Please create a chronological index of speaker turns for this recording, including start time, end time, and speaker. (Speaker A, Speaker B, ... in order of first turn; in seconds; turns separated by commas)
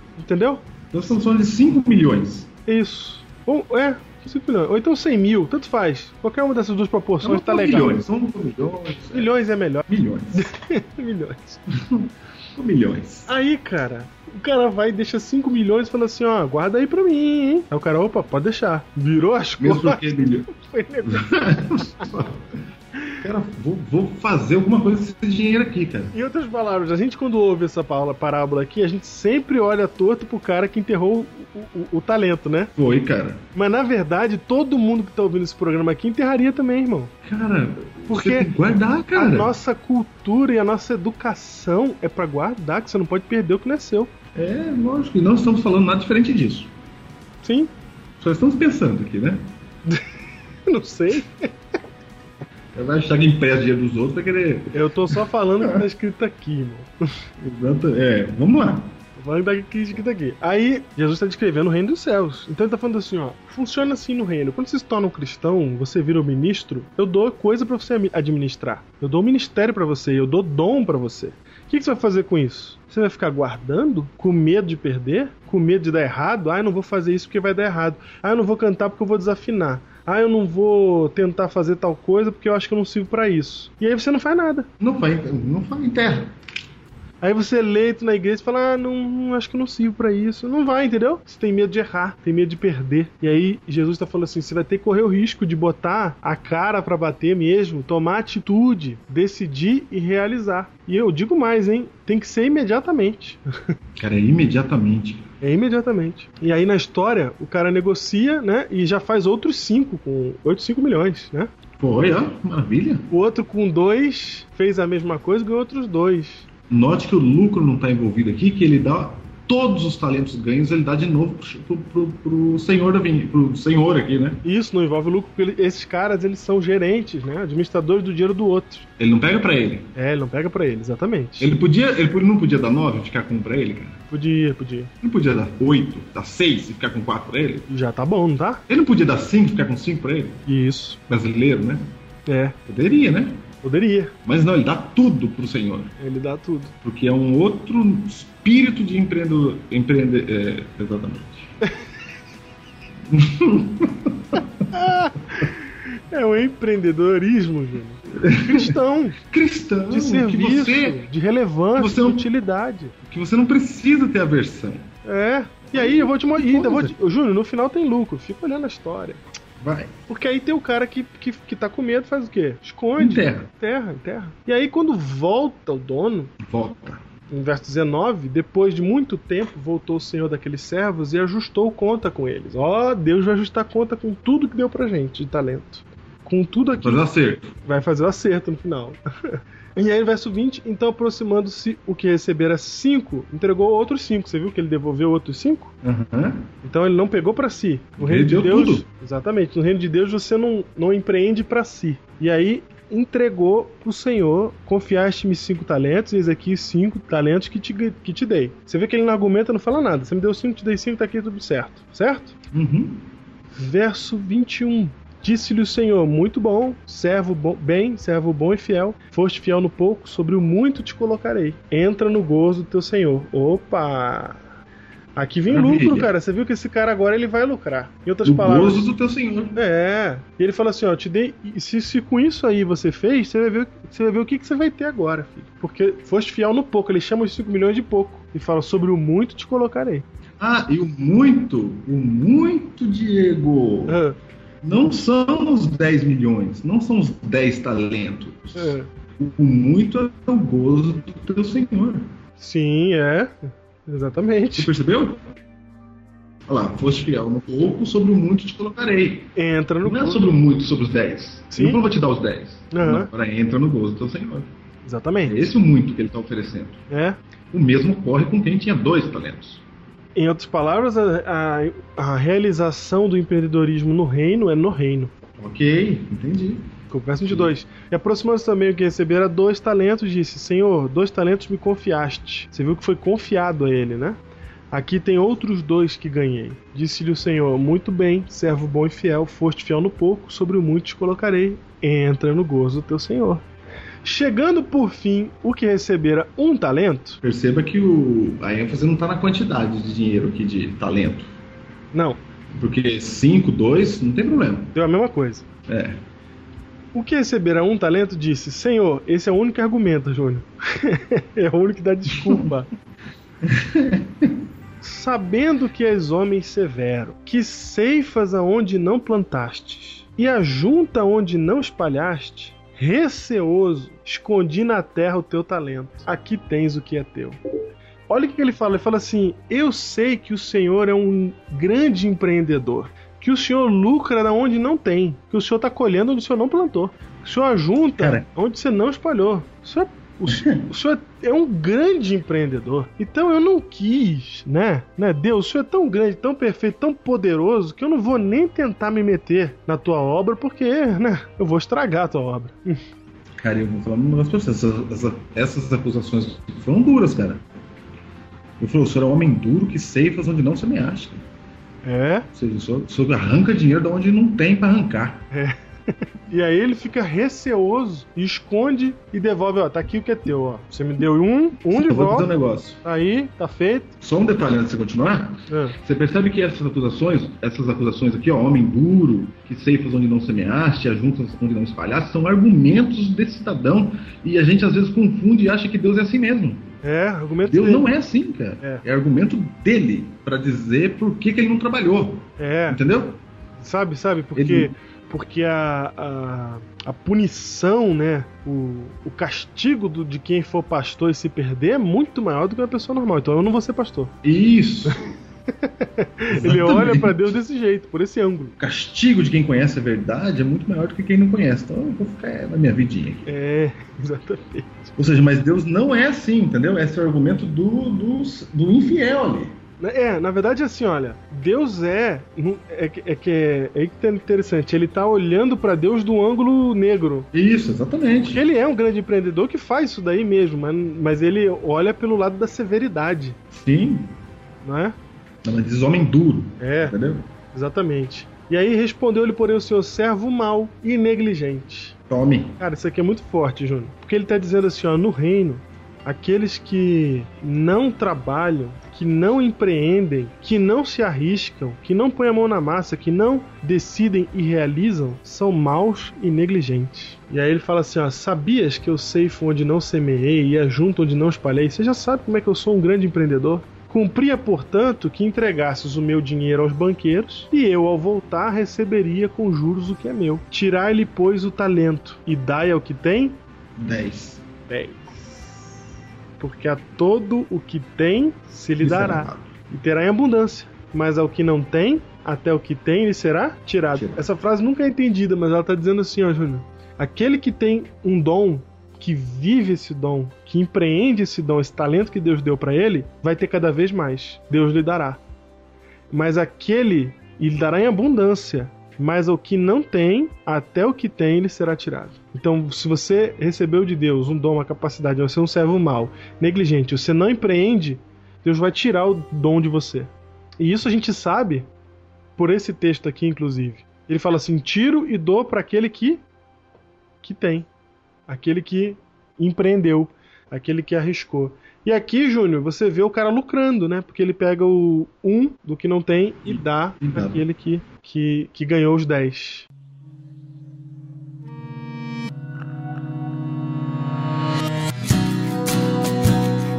Speaker A: 0.2-0.6, Speaker B: 0.9-2.5, Speaker A: 2.6-8.0, Speaker B: 7.2-9.3, Speaker A: 9.1-11.6, Speaker B: 9.9-10.5, Speaker B: 11.7-13.3, Speaker A: 13.3-22.3, Speaker B: 19.6-20.5, Speaker B: 21.0-22.4, Speaker B: 23.2-26.1, Speaker A: 26.1-32.7, Speaker B: 32.8-33.5, Speaker A: 33.5-37.1, Speaker B: 37.2-39.5, Speaker A: 38.1-38.5, Speaker A: 39.1-44.1, Speaker B: 44.3-46.7, Speaker A: 47.4-47.7, Speaker B: 48.2-49.5, Speaker A: 50.6-51.5, Speaker B: 52.7-55.8, Speaker A: 54.7-56.9, Speaker B: 57.4-59.0, Speaker A: 59.2-84.7, Speaker B: 84.8-86.3, Speaker A: 87.2-103.7, Speaker B: 104.0-105.3, Speaker A: 105.4-111.5, Speaker B: 111.8-113.1, Speaker A: 113.1-116.5, Speaker B: 116.7-124.4, Speaker A: 124.4-128.9, Speaker B: 129.0-129.9, Speaker A: 129.9-131.5, Speaker B: 131.4-134.0, Speaker A: 134.1-134.9, Speaker B: 135.0-137.7, Speaker A: 137.7-138.6, Speaker B: 138.7-140.4, Speaker A: 140.5-141.0, Speaker B: 141.1-141.9, Speaker A: 142.3-142.6, Speaker B: 142.7-143.5, Speaker A: 143.6-144.1, Speaker B: 144.2-145.9, Speaker A: 146.0-146.7, Speaker B: 146.8-151.5, Speaker B: 153.1-154.7, Speaker A: 154.7-159.2, Speaker B: 158.1-161.1, Speaker A: 159.9-162.9, Speaker B: 161.8-162.3, Speaker B: 163.0-164.9, Speaker A: 165.0-169.2, Speaker B: 165.7-166.9, Speaker B: 169.6-169.9, Speaker A: 170.1-176.3, Speaker B: 173.0-173.5, Speaker B: 176.4-177.0, Speaker A: 177.3-187.1, Speaker B: 186.8-187.6, Speaker A: 187.6-195.7, Speaker B: 195.8-196.5, Speaker A: 196.6-212.3, Speaker B: 198.0-198.8, Speaker B: 212.5-213.1, Speaker A: 213.6-224.4, Speaker A: 225.2-228.9, Speaker B: 225.5-226.1, Speaker B: 228.2-229.6, Speaker A: 229.5-240.0, Speaker B: 240.4-244.0, Speaker A: 243.9-244.2, Speaker B: 244.6-252.1, Speaker A: 248.6-248.9, Speaker A: 252.4-254.7, Speaker B: 254.6-255.3, Speaker B: 256.5-264.5, Speaker A: 259.4-260.2, Speaker A: 261.5-261.8, Speaker A: 262.7-263.1, Speaker A: 264.9-265.5, Speaker B: 265.2-266.8, Speaker A: 266.9-267.2, Speaker B: 267.5-269.6, Speaker A: 270.1-275.1, Speaker B: 275.4-276.7, Speaker A: 276.9-284.2, Speaker B: 277.2-277.5, Speaker A: 284.7-293.4, Speaker A: 294.0-297.2, Speaker B: 297.2-301.3, Speaker A: 301.9-302.2, Speaker B: 302.5-304.7, Speaker A: 304.7-305.4, Speaker B: 305.7-306.0, Speaker A: 306.9-312.7, Speaker B: 312.1-312.5, Speaker B: 313.4-314.4, Speaker A: 314.8-327.4, Speaker A: 328.1-352.8, Speaker B: 338.0-338.2, Speaker B: 340.3-340.7, Speaker B: 353.4-357.4, Speaker B: 358.6-361.2, Speaker A: 361.8-362.3, Speaker B: 362.3-365.2, Speaker A: 365.3-372.3, Speaker B: 371.7-372.8, Speaker A: 372.8-373.9, Speaker B: 374.0-386.7, Speaker A: 375.5-375.8, Speaker A: 386.8-387.9, Speaker B: 387.4-393.2, Speaker A: 392.4-392.8, Speaker A: 393.6-404.1, Speaker B: 394.3-394.7, Speaker B: 404.2-405.1, Speaker A: 405.5-408.6, Speaker B: 406.3-407.2, Speaker B: 408.6-413.3, Speaker A: 413.2-414.9, Speaker B: 414.9-419.6, Speaker A: 419.8-427.3, Speaker B: 427.3-428.4, Speaker A: 428.3-433.4, Speaker B: 433.5-434.1, Speaker A: 434.6-434.9, Speaker B: 435.4-437.3, Speaker A: 436.6-436.9, Speaker A: 437.5-442.0, Speaker B: 442.1-442.6, Speaker A: 442.6-473.4, Speaker B: 473.8-474.4, Speaker A: 474.7-475.5, Speaker A: 476.4-495.2, Speaker B: 478.8-479.5, Speaker B: 483.9-484.2, Speaker A: 496.1-511.7, Speaker A: 512.4-516.2, Speaker A: 517.2-517.7, Speaker A: 518.3-529.7, Speaker B: 526.5-527.4